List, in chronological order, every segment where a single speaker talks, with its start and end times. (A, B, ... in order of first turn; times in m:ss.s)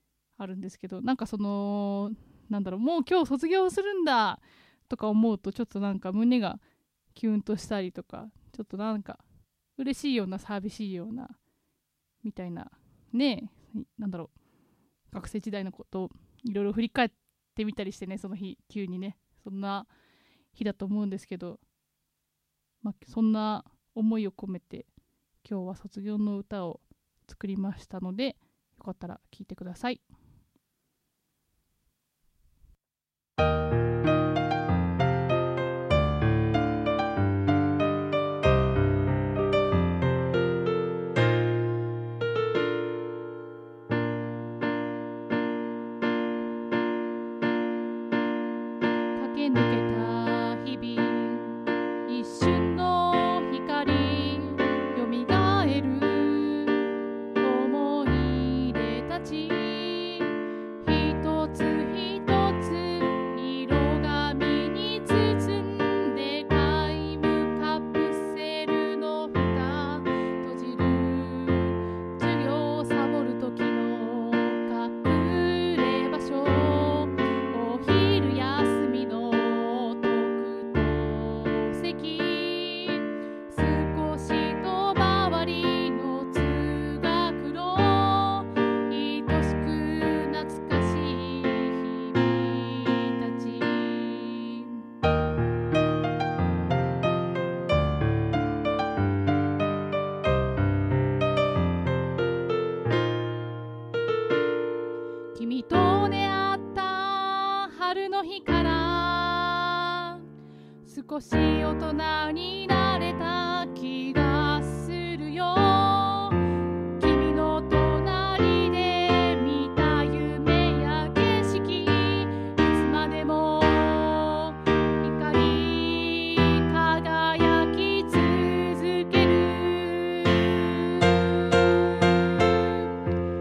0:00.4-0:06.6 A
0:07.1-0:09.2 A
0:09.8-0:11.4 A
0:12.2-0:14.3 A
0:15.1-0:19.9 A
0:20.5-0:21.6 A
0:22.8-0:24.9 A
0:25.4-0:30.0 A
0:49.2-1:34.8 A
1:45.4-1:50.2 A
1:50.8-1:56.4 A
1:57.0-2:12.8 A